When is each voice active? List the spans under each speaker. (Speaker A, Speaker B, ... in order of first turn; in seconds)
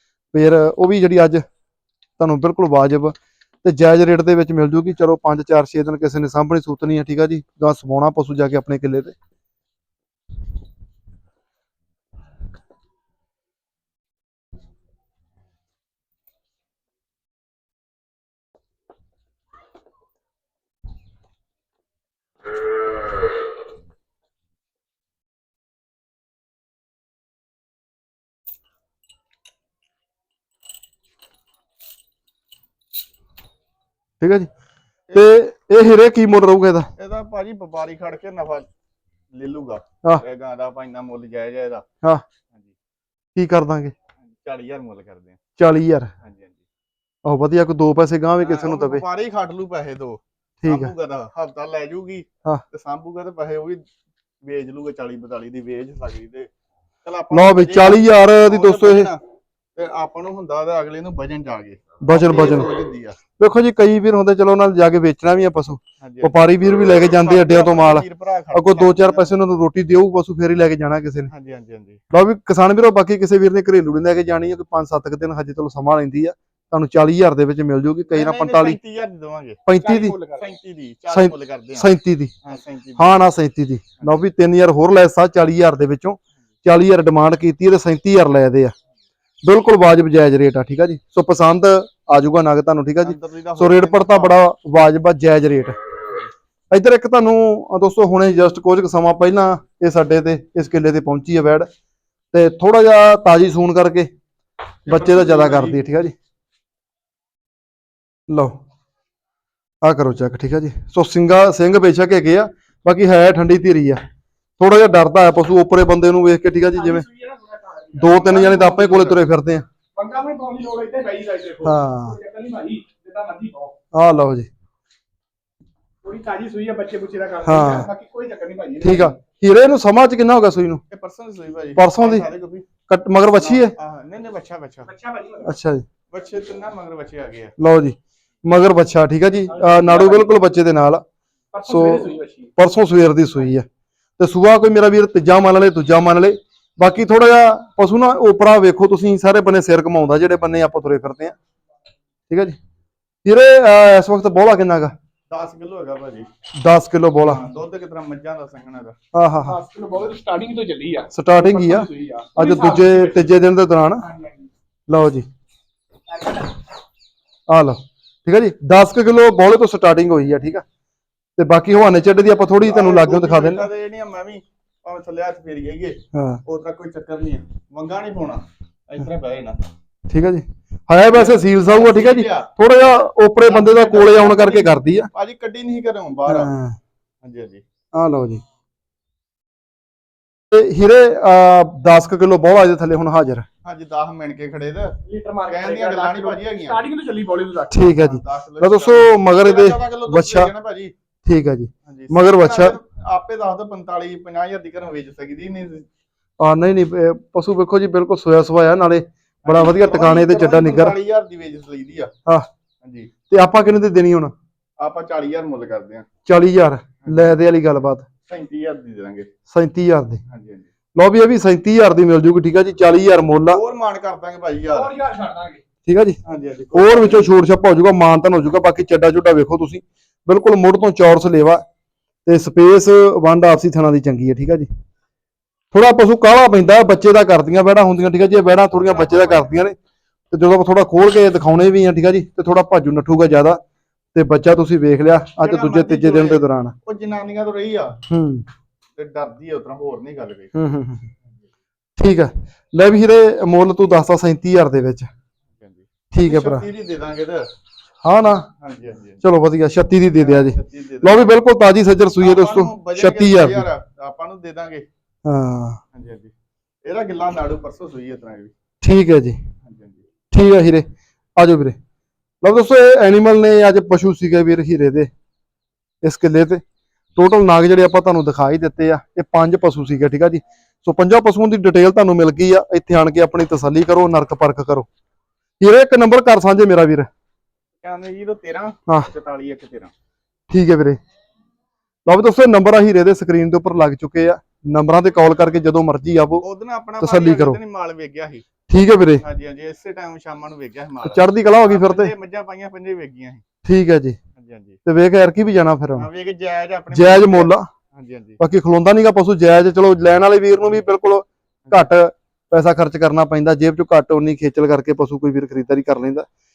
Speaker A: 0.3-1.4, 2.2-9.2, 34.2-34.5, 35.1-36.9, 43.4-43.9, 45.6-46.1, 47.2-49.0, 50.6-50.9, 57.3-59.1, 62.0-62.7, 63.4-71.3, 72.1-78.8, 79.7-80.2, 81.1-82.3, 83.0-88.7, 89.4-95.8, 96.7-101.7, 102.3-104.1, 104.9-106.2, 108.3-108.6, 109.8-114.0, 114.6-117.1, 117.9-119.7, 121.6-122.2, 123.9-124.5, 127.4-127.9, 128.8-130.8, 131.8-132.3, 132.9-133.7, 135.4-135.8, 137.6-141.0, 141.6-143.7, 144.2-151.4, 152.3-152.6, 153.2-154.9, 156.6-157.4, 159.1-159.6, 161.1-164.1, 164.9-165.3, 167.5-170.6, 171.4-173.7, 176.1-176.4, 180.1-185.1, 186.3-186.8, 187.9-188.4, 190.5-193.5, 197.7-200.5, 201.2-202.8, 206.4-211.0, 213.3-214.3, 216.2-218.1, 219.5-220.2, 221.0-223.6, 225.8-226.2, 226.7-231.6, 232.2-234.7, 235.7-239.8, 240.3-243.6, 244.1-246.7, 248.1-248.4, 250.6-251.1, 252.0-255.1, 256.1-256.6, 258.0-258.5, 259.2-263.7, 265.2-265.8, 268.8-269.4, 270.3-271.8, 272.4-275.1, 276.0-276.6, 277.2-284.9, 285.6-287.1, 290.5-291.0, 292.1-296.4, 297.0-297.6, 298.7-299.2, 301.0-302.1, 303.6-304.2, 304.9-306.1, 306.9-307.7, 308.4-316.3
Speaker B: 37.0-38.7, 39.3-41.9, 44.4-45.4, 46.2-46.6, 48.4-53.8, 54.4-56.5, 57.0-59.2, 59.8-63.2, 66.0-66.4, 67.0-69.4, 71.3-72.0, 78.1-83.3, 93.0-94.4, 104.9-105.8, 130.9-132.7, 133.2-135.0, 136.1-137.5, 155.3-156.3, 157.2-159.0, 172.6-179.6, 181.0-182.5, 183.4-186.5, 187.2-187.6, 193.6-196.9, 197.9-200.9, 201.9-205.9, 209.4-212.1, 212.8-213.2, 214.8-216.1, 217.0-217.4, 218.3-219.3, 220.3-220.7, 223.5-225.0, 226.2-227.4, 238.6-239.5, 245.4-248.0, 249.0-250.5, 255.6-257.5, 258.5-259.2, 260.1-261.4, 262.2-264.9, 265.9-266.3, 266.9-268.5, 269.6-270.1, 287.8-289.9, 296.4-298.5, 299.2-303.4, 304.4-304.8, 305.9-308.4
Speaker C: 116.8-119.0, 120.0-123.7, 126.0-129.1, 135.0-135.5, 139.6-140.0, 141.5-142.5, 159.5-163.0, 164.1-164.5, 166.1-166.5, 195.1-197.9, 225.0-225.6